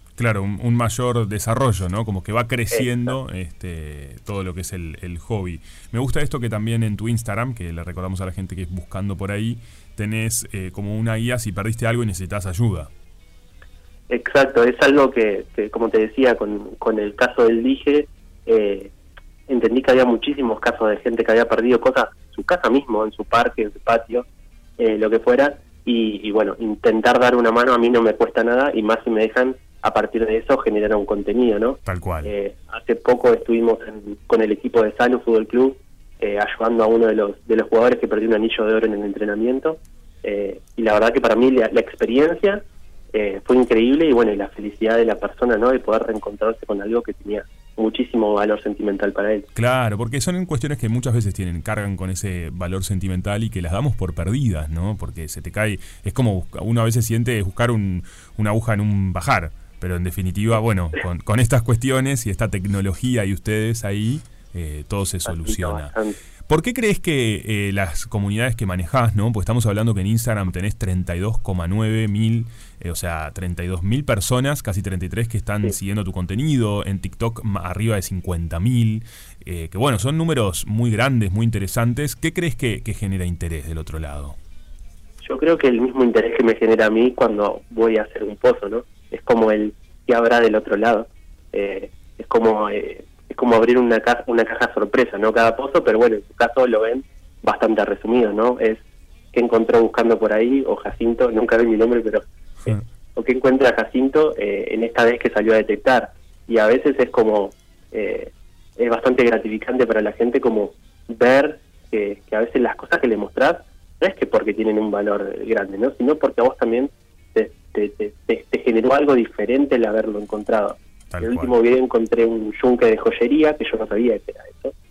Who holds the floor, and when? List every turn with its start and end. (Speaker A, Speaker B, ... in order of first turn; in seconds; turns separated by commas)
Speaker A: 0.2-12.9, Speaker B: 2.7-3.1, Speaker B: 14.1-18.9, Speaker B: 19.5-24.3, Speaker B: 24.8-49.5, Speaker A: 31.9-32.3, Speaker A: 49.5-65.9, Speaker B: 65.3-66.2, Speaker A: 66.5-84.4, Speaker B: 85.2-98.8, Speaker B: 99.3-124.7, Speaker A: 121.1-121.5